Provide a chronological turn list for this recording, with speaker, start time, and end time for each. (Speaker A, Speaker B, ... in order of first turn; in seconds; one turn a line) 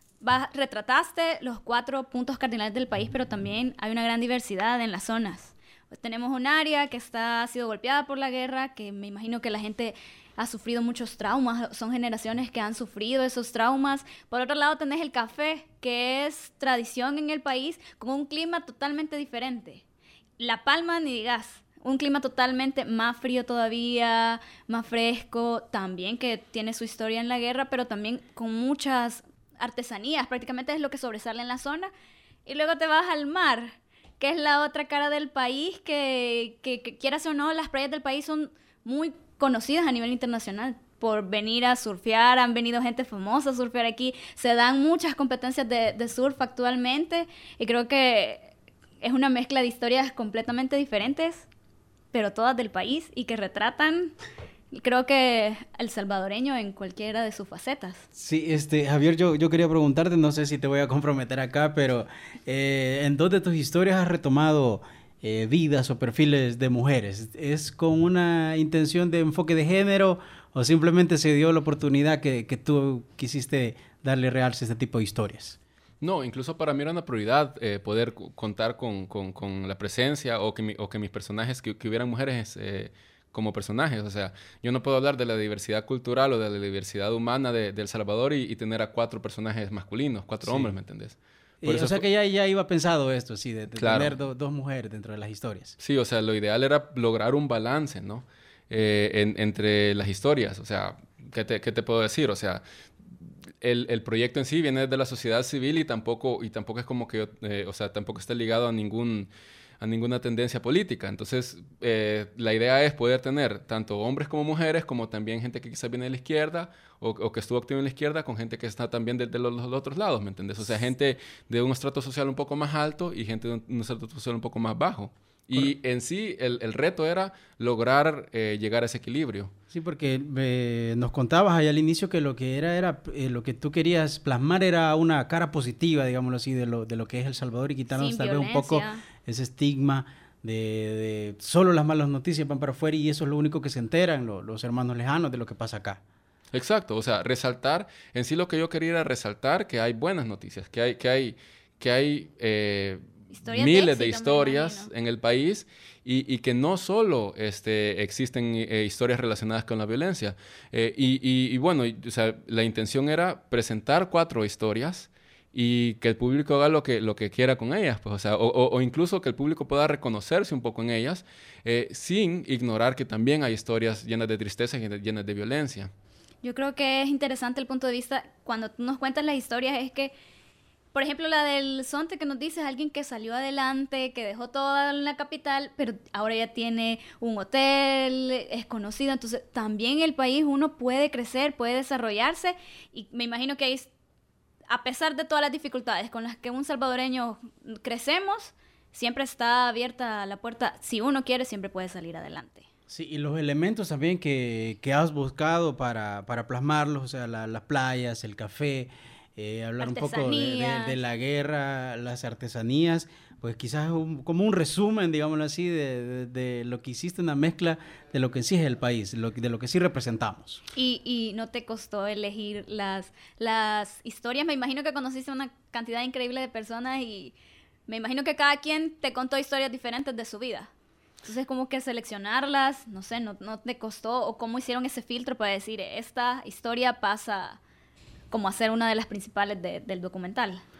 Speaker A: 0.2-19.8
Speaker A: 20.4-31.9
Speaker A: 32.5-48.5
Speaker A: 49.0-51.5
Speaker A: 52.1-54.1
Speaker A: 54.7-58.0
Speaker B: 58.1-75.6
Speaker C: 76.0-92.0
Speaker B: 90.4-90.7
Speaker B: 91.6-95.8
Speaker C: 93.7-94.2
Speaker C: 95.8-102.6
Speaker C: 103.6-129.5
Speaker B: 129.7-146.0
Speaker A: 137.9-139.0
Speaker C: 146.5-175.9
Speaker A: 153.3-154.9
Speaker A: 176.4-180.1
Speaker A: 180.9-193.9
Speaker A: 194.7-202.7
Speaker B: 202.9-220.6
Speaker A: 209.8-211.0
Speaker A: 220.7-227.3
Speaker A: 227.9-230.7
Speaker A: 231.2-237.6
Speaker A: 238.3-240.6